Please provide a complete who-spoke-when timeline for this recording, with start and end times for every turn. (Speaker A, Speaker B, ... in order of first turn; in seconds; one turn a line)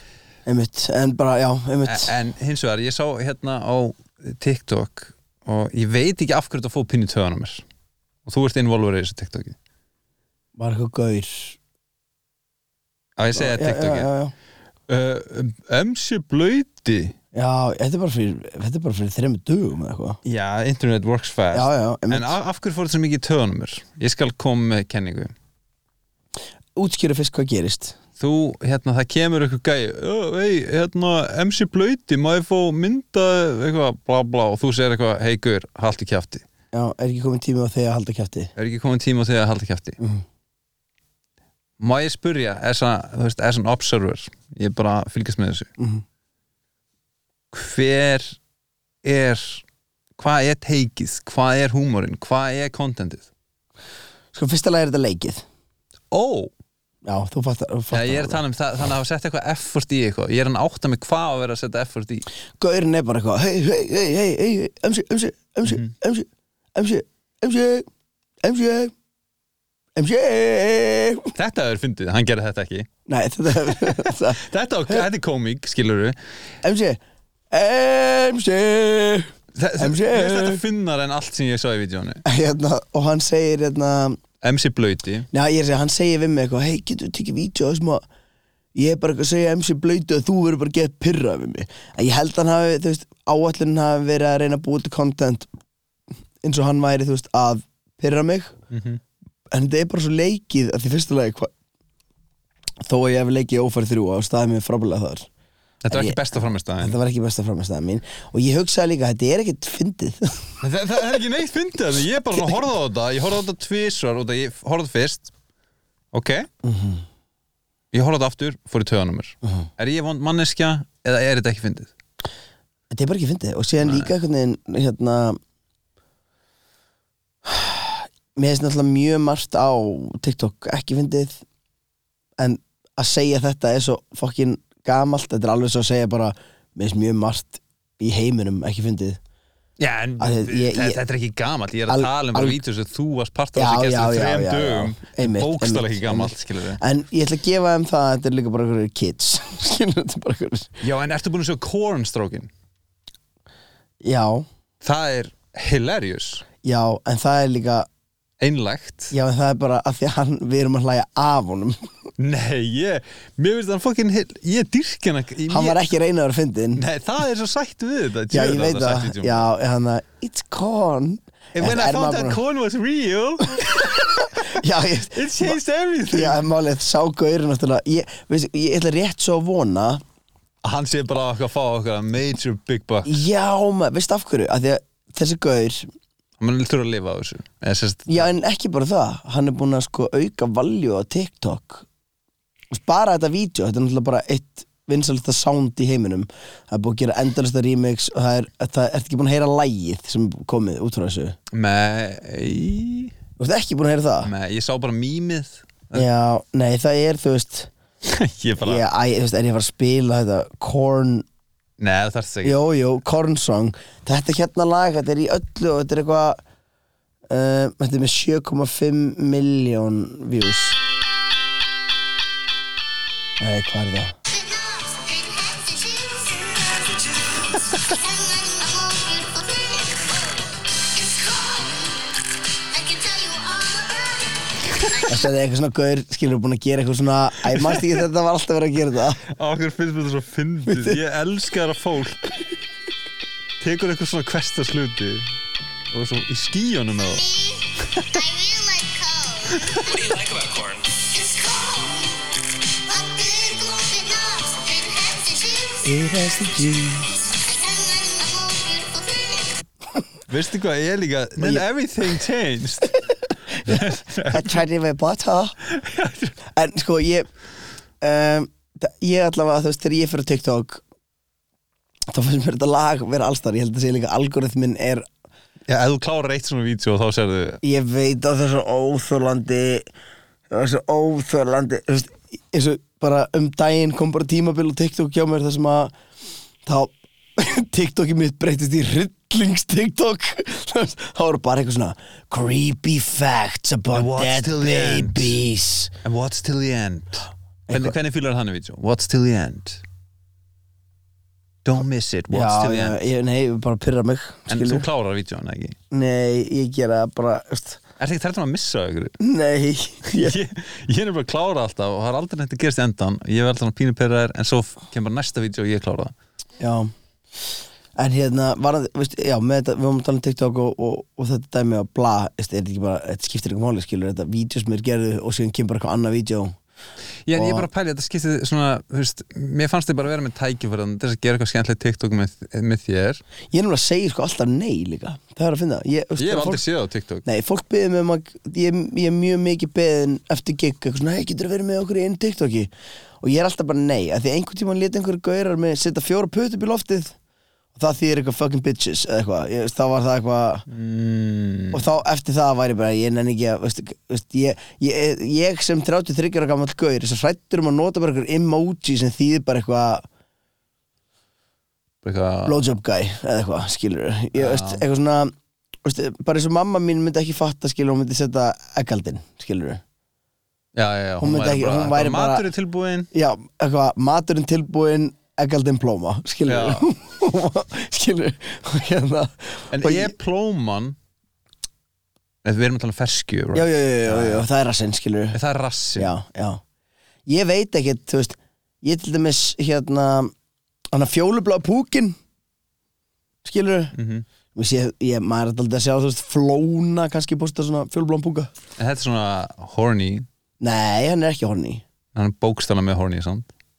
Speaker A: 0.5-2.1
Speaker B: 1.9-7.6
Speaker B: 8.2-9.6
Speaker A: 10.6-11.6
Speaker B: 13.2-14.1
Speaker A: 13.3-14.3
Speaker B: 14.9-17.1
Speaker A: 17.3-20.2
Speaker B: 20.2-25.3
Speaker A: 21.5-22.3
Speaker A: 26.8-28.0
Speaker B: 28.2-36.4
Speaker A: 36.7-38.5
Speaker B: 38.5-40.0
Speaker A: 40.0-40.2
Speaker B: 41.8-45.7
Speaker A: 45.8-46.0
Speaker B: 47.5-48.4
Speaker B: 49.0-49.6
Speaker B: 50.1-53.3
Speaker A: 54.3-55.4
Speaker B: 56.1-56.5
Speaker A: 57.0-58.4
Speaker B: 57.9-62.2
Speaker A: 62.6-67.9
Speaker A: 68.4-68.9
Speaker A: 70.0-71.3
Speaker B: 71.3-72.9
Speaker A: 73.1-75.0
Speaker B: 73.5-76.2
Speaker A: 76.6-80.6
Speaker B: 79.5-82.2
Speaker A: 82.2-84.2
Speaker B: 84.4-85.3
Speaker A: 85.3-88.0
Speaker A: 88.7-95.5
Speaker A: 96.4-98.5
Speaker B: 98.7-99.0
Speaker A: 99.5-101.5
Speaker A: 102.8-105.3
Speaker B: 105.8-107.0
Speaker A: 105.9-106.2
Speaker A: 106.8-110.5
Speaker B: 110.6-115.3
Speaker B: 116.1-116.5
Speaker A: 116.6-117.0
Speaker B: 117.9-121.9
Speaker A: 122.9-125.4
Speaker B: 123.8-124.1
Speaker A: 127.4-131.4
Speaker A: 132.4-139.2
Speaker B: 139.8-146.8
Speaker A: 140.2-141.0
Speaker A: 141.9-142.6
Speaker A: 143.5-150.7
Speaker B: 150.8-152.5
Speaker A: 154.0-154.4
Speaker B: 154.8-156.4
Speaker A: 156.6-157.9
Speaker B: 158.4-159.1
Speaker A: 159.1-161.8
Speaker B: 162.2-165.8
Speaker A: 165.5-166.8
Speaker B: 166.7-169.5
Speaker A: 168.3-172.4
Speaker B: 171.5-174.6
Speaker A: 173.6-175.6
Speaker B: 175.1-176.4
Speaker A: 176.1-180.0
Speaker B: 180.6-183.2
Speaker A: 183.0-185.9
Speaker B: 186.4-188.3
Speaker A: 188.1-191.8
Speaker A: 192.7-201.3
Speaker B: 201.5-203.1
Speaker A: 203.4-204.3
Speaker B: 204.2-206.0
Speaker A: 205.9-207.7
Speaker B: 208.0-208.8
Speaker A: 208.6-211.2
Speaker B: 211.8-212.6
Speaker A: 212.4-216.4
Speaker A: 217.3-220.8
Speaker A: 223.4-224.2
Speaker C: 224.3-235.3
Speaker A: 235.1-239.2
Speaker B: 237.4-238.0
Speaker B: 239.3-242.3
Speaker B: 243.6-245.3
Speaker B: 245.9-247.2
Speaker C: 247.0-252.2
Speaker B: 247.9-248.2
Speaker B: 249.6-249.9
Speaker C: 252.8-256.1
Speaker A: 255.8-257.1
Speaker C: 257.3-259.6
Speaker B: 260.3-263.0
Speaker A: 261.4-261.6
Speaker A: 263.5-265.6
Speaker B: 263.5-264.6
Speaker B: 265.6-266.4
Speaker A: 266.5-267.3
Speaker A: 268.0-270.8
Speaker A: 272.1-275.1
Speaker B: 275.7-277.6
Speaker A: 277.6-279.9
Speaker A: 280.5-285.9
Speaker A: 286.6-295.9
Speaker B: 293.9-295.4
Speaker B: 296.0-299.8
Speaker A: 297.7-297.9
Speaker B: 301.6-303.0
Speaker A: 302.3-304.9
Speaker B: 304.5-305.8
Speaker A: 305.9-307.8
Speaker B: 308.0-309.2
Speaker A: 309.2-310.4
Speaker B: 310.2-316.1
Speaker A: 316.6-316.9
Speaker A: 317.9-326.6
Speaker B: 327.2-333.2
Speaker A: 327.3-327.7
Speaker A: 333.5-336.6
Speaker B: 336.2-337.2
Speaker A: 337.2-342.7
Speaker A: 343.2-347.1
Speaker A: 347.7-350.6
Speaker B: 350.7-351.8
Speaker A: 351.7-360.0
Speaker B: 362.0-362.6
Speaker A: 362.4-365.3
Speaker B: 364.3-364.8
Speaker A: 365.8-369.8
Speaker B: 370.7-373.1
Speaker A: 371.2-372.5
Speaker A: 373.1-380.1
Speaker B: 376.4-376.9
Speaker B: 379.7-380.9
Speaker B: 382.4-384.5
Speaker A: 383.5-385.4
Speaker B: 385.3-386.1
Speaker A: 386.0-386.6
Speaker A: 387.3-390.3
Speaker A: 390.9-392.2
Speaker A: 393.4-393.9
Speaker B: 393.9-394.2
Speaker A: 394.5-398.5
Speaker B: 398.8-400.3
Speaker A: 400.6-401.8
Speaker B: 402.1-403.5